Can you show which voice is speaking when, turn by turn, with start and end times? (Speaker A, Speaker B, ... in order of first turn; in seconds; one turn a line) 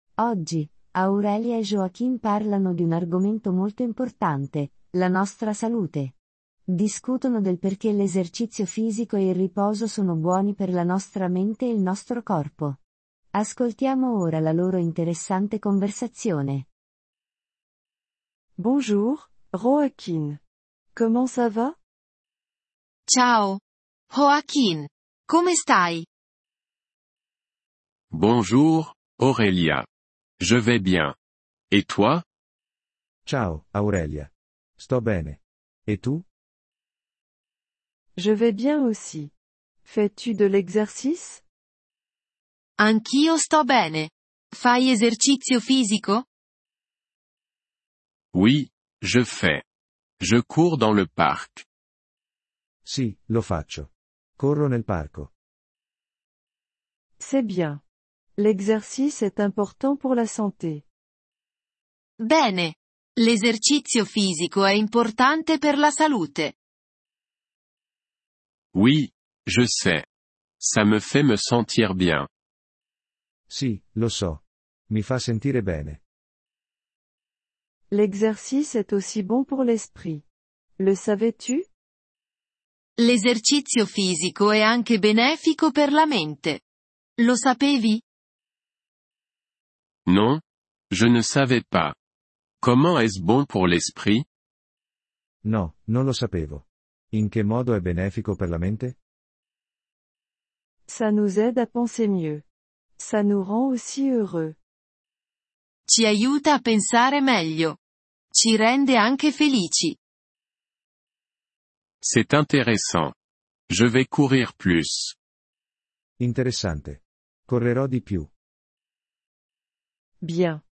Speaker A: 0.2-6.1
Speaker A: 6.7-12.8
Speaker A: 13.3-16.7
Speaker B: 18.6-20.4
Speaker B: 20.9-21.8
Speaker C: 23.1-23.6
Speaker C: 24.1-26.1
Speaker D: 28.1-29.9
Speaker D: 30.4-31.1
Speaker D: 31.7-32.2
Speaker E: 33.2-36.2
Speaker B: 38.1-39.3
Speaker B: 39.8-41.4
Speaker C: 42.8-46.2
Speaker D: 48.3-49.6
Speaker D: 50.2-51.6
Speaker E: 52.8-55.3
Speaker B: 57.2-57.8
Speaker B: 58.4-60.9
Speaker C: 62.2-66.5
Speaker D: 68.7-70.0
Speaker D: 70.6-72.3
Speaker E: 73.5-76.0
Speaker B: 77.9-80.2
Speaker B: 80.8-81.7
Speaker C: 83.0-86.6
Speaker C: 87.2-88.0
Speaker D: 90.0-92.0
Speaker D: 92.6-94.2
Speaker E: 95.4-99.0
Speaker B: 100.9-102.4
Speaker B: 103.0-104.6
Speaker C: 105.9-107.8
Speaker C: 108.3-110.0
Speaker D: 112.0-113.1
Speaker D: 113.7-115.2
Speaker E: 116.2-118.3
Speaker B: 120.2-120.6